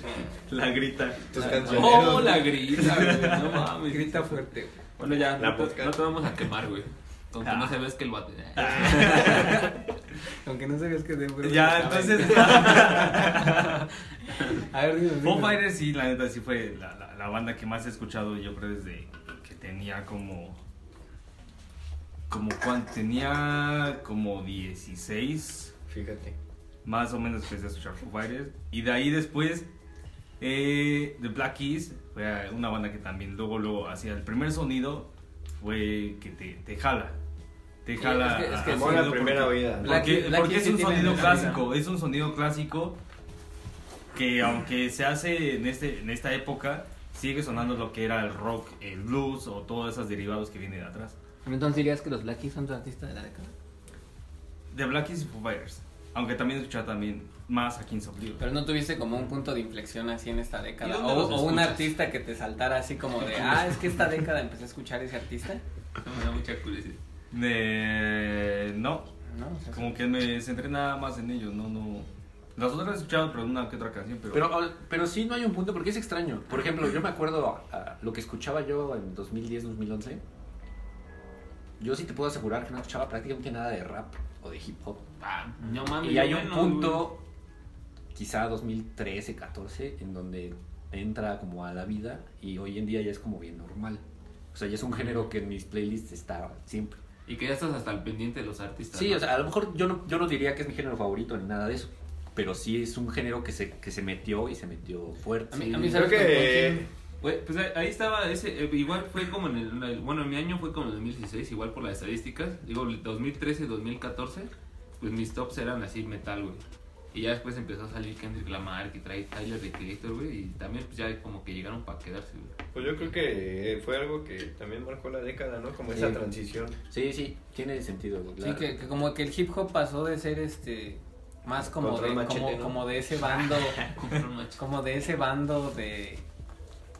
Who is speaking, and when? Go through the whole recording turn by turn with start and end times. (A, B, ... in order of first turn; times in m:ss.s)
0:00.5-0:03.7 A
0:01.3-0:02.5 B
0:01.3-0:04.4 C
0:03.9-0:04.8 D
0:05.0-0:09.6 C
0:05.4-0:06.0 B
0:07.4-0:07.8 A
0:08.6-0:09.8 A
0:08.8-0:09.5 B
0:10.4-0:13.5 D
0:11.4-0:13.8 A
0:14.5-0:15.6 D
0:15.2-0:20.6 A
0:22.3-0:25.7 A
0:25.9-0:26.4 B
0:26.8-0:29.6 A
0:30.4-0:35.1 A
0:35.6-0:37.2 A
0:37.8-0:43.0 A
0:38.0-0:39.2 D
0:38.7-0:40.2 B
0:39.8-0:41.7 D
0:44.1-0:51.1 A
0:51.4-0:53.5 D
0:54.7-0:58.4 A
0:58.4-1:05.6 D
1:00.8-1:02.0 C
1:06.0-1:07.0 C
1:07.3-1:09.1 A
1:09.3-1:10.0 D
1:09.7-1:14.5 A
1:14.3-1:20.2 E
1:21.8-1:25.0 E
1:25.2-1:27.1 C
1:26.0-1:27.2 E
1:28.1-1:37.0 E
1:34.9-1:35.2 C
1:37.2-1:39.3 C
1:38.9-1:46.1 E
1:45.5-1:46.8 D
1:45.8-1:46.9 B
1:47.2-2:02.6 C
2:02.7-2:06.8 B
2:05.9-2:06.2 E
2:06.9-2:08.7 E
2:08.4-2:13.8 D
2:11.6-2:12.8 B
2:13.8-2:14.6 C
2:14.6-2:16.2 D